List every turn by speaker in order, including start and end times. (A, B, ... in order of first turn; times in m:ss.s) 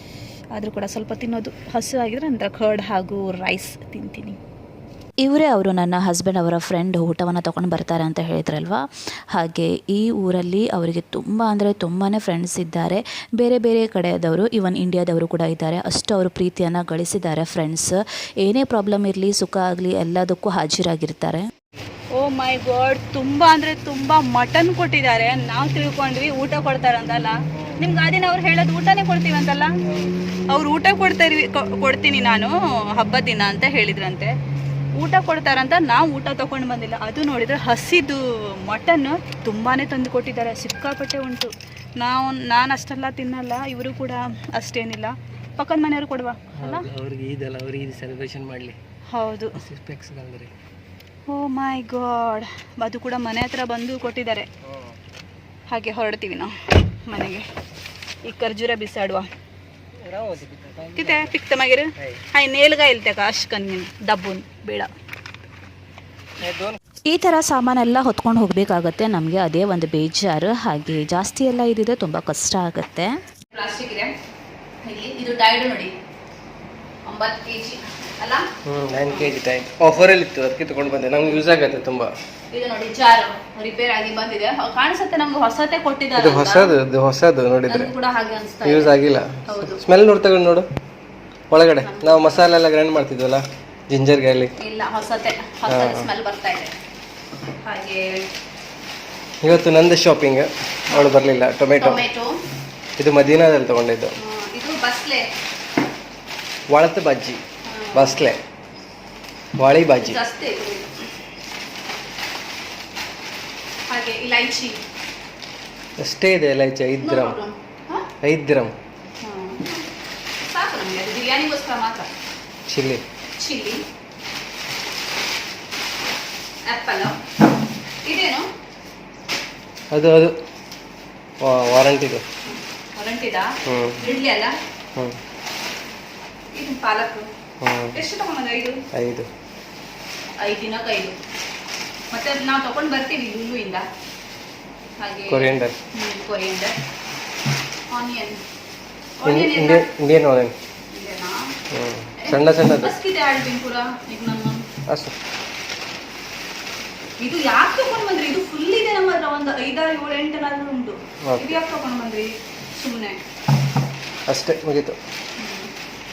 0:00.5-0:04.4 A
0:05.2-0:21.5 B
0:22.1-0:29.8 A
0:27.6-0:27.8 C
0:29.9-0:30.2 C
0:30.5-0:34.3 A
0:35.0-0:46.9 A
0:46.6-0:48.8 C
0:49.1-0:49.6 A
0:49.6-0:50.5 C
0:51.3-0:54.5 A
0:55.7-0:57.5 A
0:58.2-0:59.3 A
1:00.0-1:01.3 C
1:01.0-1:04.9 A
1:06.4-1:06.8 C
1:07.1-1:13.2 B
1:13.5-1:14.1 A
1:14.8-1:15.9 A
1:17.0-1:18.5 A
1:18.6-1:22.1 C
1:22.5-1:26.8 A
1:26.2-1:27.9 C
1:27.7-1:29.0 A
1:28.6-1:30.7 C
1:29.5-1:29.8 A
1:31.5-1:34.5 C
1:31.8-1:32.4 A
1:34.6-1:36.8 A
1:35.7-1:36.1 C
1:37.6-1:38.3 A
1:39.4-1:42.0 C
1:40.9-1:41.2 A
1:41.8-1:42.4 A
1:43.0-1:44.1 C
1:44.2-1:45.3 A
1:46.7-1:47.4 C
1:47.6-1:48.3 A
1:47.9-1:48.4 C
1:49.6-1:50.2 C
1:50.0-1:51.1 A
1:53.9-1:54.8 A
1:56.0-1:57.4 C
1:57.0-1:58.1 A
1:58.2-1:58.7 C
1:59.2-1:59.8 A
2:00.4-2:02.1 A
2:02.7-2:03.0 C
2:03.4-2:03.8 A
2:06.7-2:07.2 A
2:08.0-2:08.5 A
2:09.9-2:10.4 C
2:11.4-2:12.2 C
2:12.4-2:14.6 A
2:13.6-2:14.0 C
2:16.6-2:17.3 A
2:17.6-2:18.0 C
2:17.9-2:18.8 A
2:18.9-2:19.3 C
2:20.4-2:21.2 A
2:22.1-2:23.9 A
2:25.0-2:26.7 A
2:25.3-2:25.8 C
2:27.9-2:28.4 A
2:29.2-2:29.9 A
2:29.2-2:30.6 C
2:30.9-2:31.5 A
2:31.7-2:32.9 C
2:32.2-2:34.6 A
2:34.9-2:35.1 C
2:37.2-2:43.2 A
2:41.2-2:41.6 C
2:44.3-2:45.0 C
2:45.4-2:45.7 A